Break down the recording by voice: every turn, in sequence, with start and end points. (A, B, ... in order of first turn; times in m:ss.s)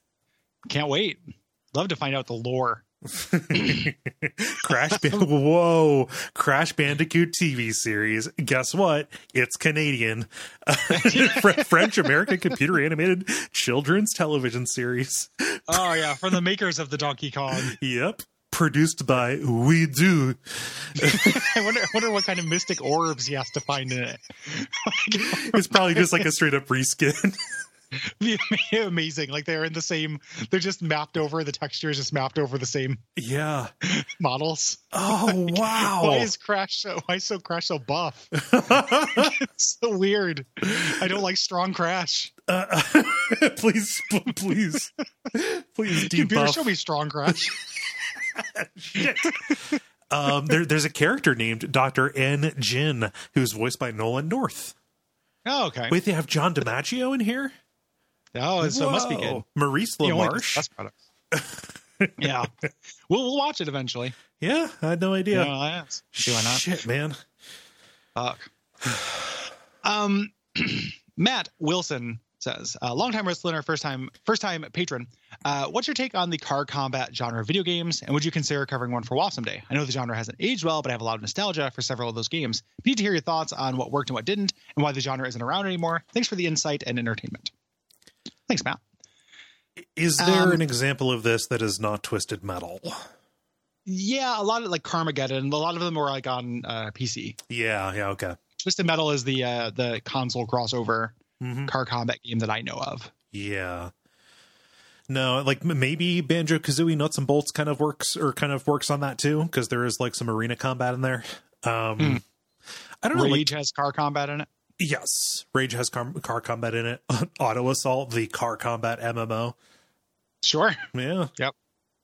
0:00.7-0:02.8 A
0:03.1-0:16.4 B
0:03.5-0:03.9 A
0:10.9-0:12.3 A
0:15.7-0:17.8 A
0:17.6-0:21.5 B
0:21.0-0:26.3 A
0:25.1-0:27.6 B
0:27.9-0:33.0 A
0:33.2-0:33.7 B
0:33.8-0:42.3 A
0:34.9-0:36.3 B
0:38.3-0:39.4 B
0:40.6-0:41.1 B
0:42.5-0:46.7 B
0:45.9-0:47.6 A
0:48.3-0:54.8 B
0:49.0-0:49.8 A
0:55.4-0:56.0 A
0:55.9-0:57.5 B
0:58.3-0:59.4 A
0:58.6-1:00.6 B
1:00.0-1:01.0 A
1:01.3-1:02.4 B
1:02.2-1:02.5 A
1:03.1-1:04.2 A
1:04.4-1:05.5 B
1:05.3-1:06.6 A
1:06.1-1:07.2 B
1:08.2-1:08.5 A
1:09.8-1:27.5 A
1:28.5-1:28.8 A
1:30.0-1:33.1 B
1:30.2-1:30.6 A
1:33.9-1:37.4 A
1:37.5-1:38.4 B
1:38.6-1:43.1 A
1:41.4-1:41.7 B
1:43.3-1:43.9 B
1:45.1-1:52.2 B
1:53.0-1:53.5 B
1:53.1-1:54.5 A
1:54.8-1:59.6 B
2:00.4-2:00.9 A
2:00.9-2:01.3 B